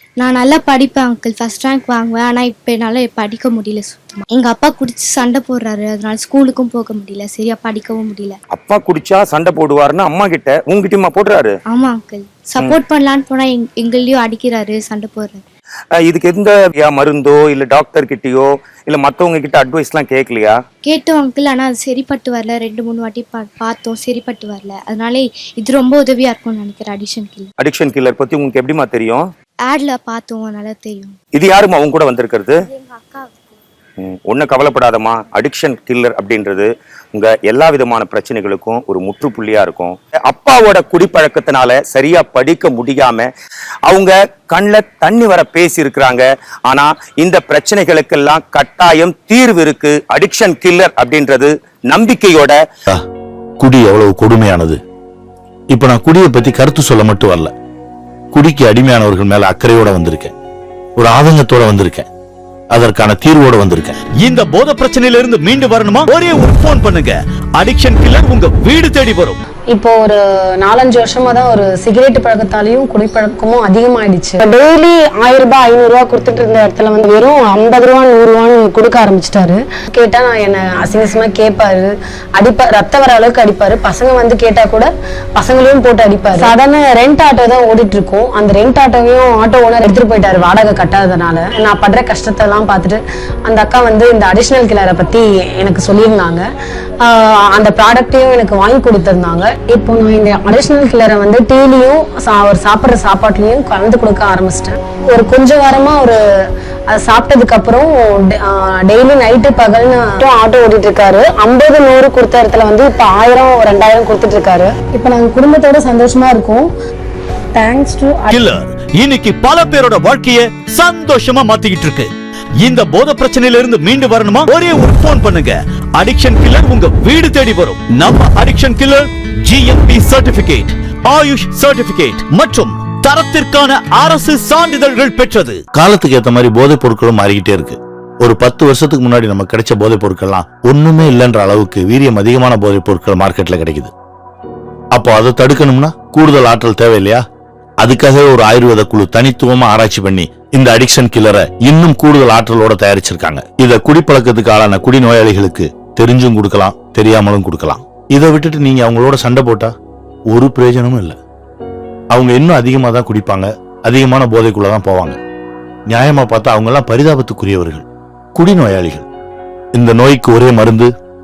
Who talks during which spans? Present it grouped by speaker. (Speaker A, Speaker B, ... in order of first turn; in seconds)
Speaker A: 0.2-8.4, 11.7-15.4, 20.9-27.5, 29.7-31.1, 32.7-33.4
Speaker B: 8.6-11.5, 16.1-20.5, 27.6-29.2, 31.4-32.6, 34.0-43.3, 43.9-52.6
Speaker C: 53.6-54.8, 55.7-57.5, 58.3-60.3, 61.0-62.1, 62.7-64.0, 135.8-143.9, 144.9-147.2, 147.8-159.7, 160.3-161.2, 162.1-165.2, 165.9-167.8, 168.4-169.1, 169.8-170.9
Speaker D: 64.2-69.4, 118.3-122.1, 122.6-135.6
Speaker E: 69.7-96.4, 97.0-106.2, 106.9-116.7, 117.5-118.5